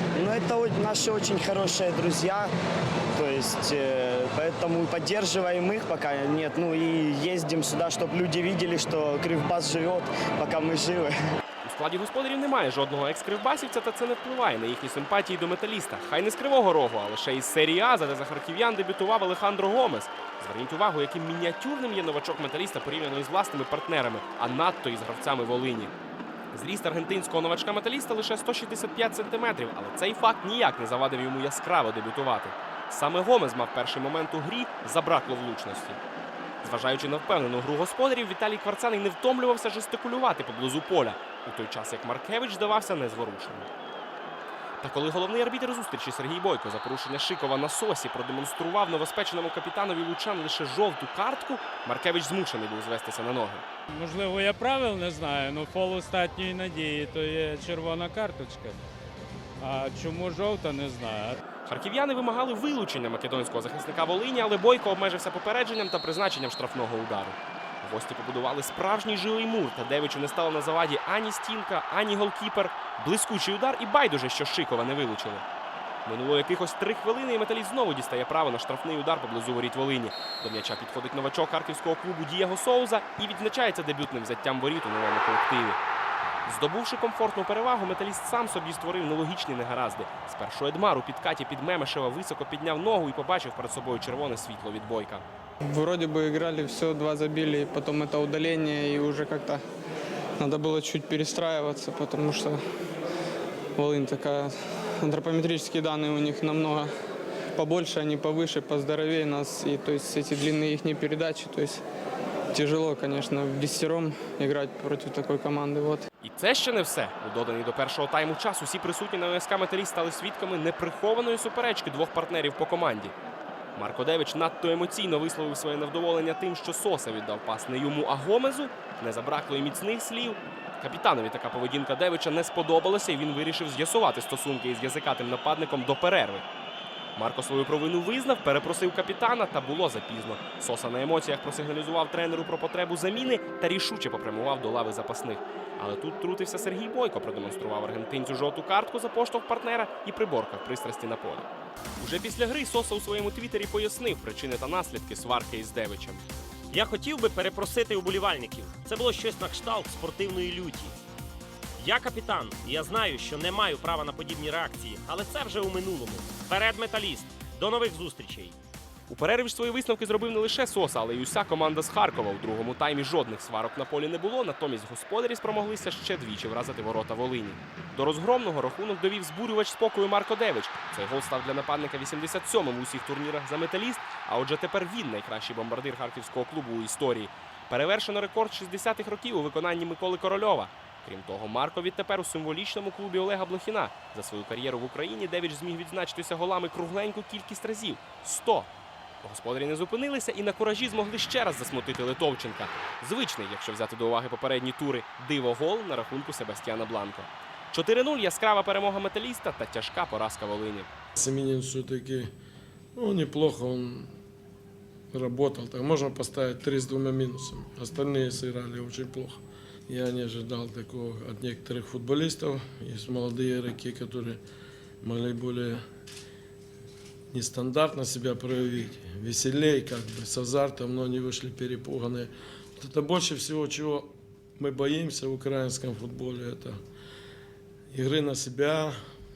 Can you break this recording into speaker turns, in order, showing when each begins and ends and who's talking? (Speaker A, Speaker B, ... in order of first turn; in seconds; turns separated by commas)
Speaker A: 0.2-2.5, Speaker A: 3.1-11.1, Speaker B: 11.6-25.9, Speaker B: 26.5-36.0, Speaker B: 36.6-43.7, Speaker B: 44.8-53.6, Speaker C: 53.9-58.8, Speaker C: 59.6-61.4, Speaker B: 61.6-75.4, Speaker B: 76.0-85.8, Speaker B: 86.5-95.2, Speaker D: 95.6-99.6, Speaker D: 100.4-102.6, Speaker D: 103.8-106.9, Speaker D: 107.5-111.8, Speaker D: 112.5-116.0, Speaker B: 116.2-123.1, Speaker B: 123.8-136.4, Speaker B: 137.2-151.5, Speaker B: 152.0-156.2, Speaker E: 156.7-160.9, Speaker E: 161.8-168.6, Speaker B: 169.1-198.7, Speaker B: 199.2-210.9, Speaker F: 211.2-212.3, Speaker F: 212.9-214.1, Speaker F: 215.1-224.4, Speaker F: 225.0-225.8, Speaker F: 227.3-236.8, Speaker F: 237.9-238.9